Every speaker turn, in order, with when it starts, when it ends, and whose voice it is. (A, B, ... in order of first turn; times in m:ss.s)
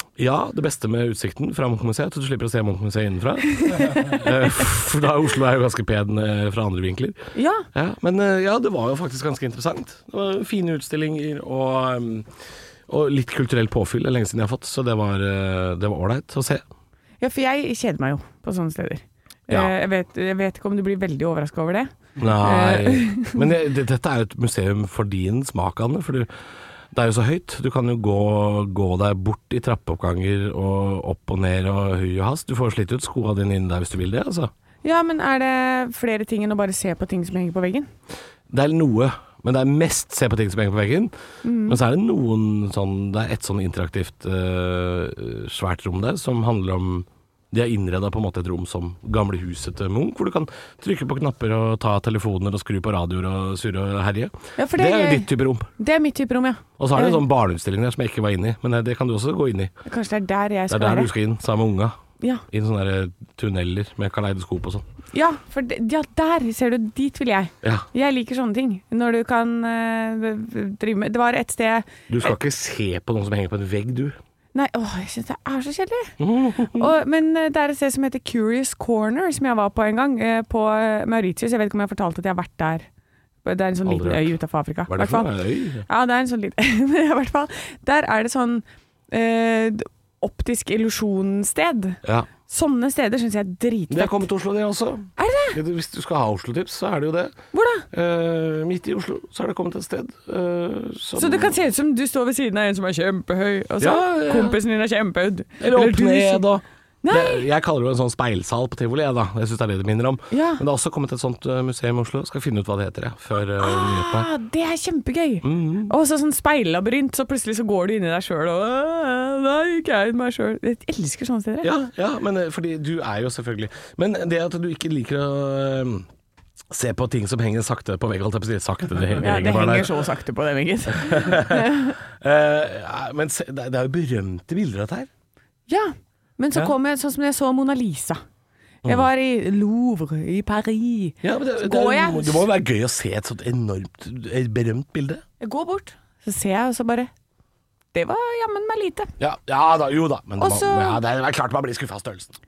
0:00.2-0:07.2 A
0:03.6-0:04.3 B
0:07.3-0:07.7 B
0:07.7-0:12.3 A
0:12.9-0:16.6 A
0:17.2-0:23.5 B
0:22.2-0:26.3 A
0:26.9-0:34.5 A
0:34.8-0:37.9 B
0:38.5-0:41.1 A
0:41.4-0:41.8 B
0:41.6-0:55.7 A
0:54.6-0:57.2 B
0:56.8-0:59.7 A
0:59.8-1:01.1 B
1:00.7-1:02.0 A
1:02.5-1:04.8 A
1:05.1-1:12.3 B
1:12.1-1:14.2 A
1:14.5-1:16.1 B
1:16.2-1:16.9 A
1:16.6-1:22.8 B
1:23.4-1:25.3 B
1:23.8-1:24.3 A
1:24.9-1:25.8 A
1:25.9-1:34.2 B
1:32.0-1:32.3 A
1:33.9-1:37.4 A
1:35.2-1:35.6 B
1:37.5-1:37.9 B
1:37.9-1:41.6 A
1:41.2-1:46.4 B
1:43.8-1:44.6 A
1:45.6-1:54.3 A
1:47.0-1:47.5 B
1:50.3-1:50.6 B
1:53.6-2:01.7 B
1:55.4-1:55.9 A
2:01.6-2:06.1 A
2:06.7-2:10.0 A
2:09.2-2:12.0 B
2:10.9-2:15.1 A
2:15.7-2:18.2 B
2:18.8-2:22.4 B
2:21.2-2:25.2 A
2:25.4-2:27.1 B
2:27.9-2:29.1 B
2:29.2-2:32.4 A
2:30.4-2:31.0 B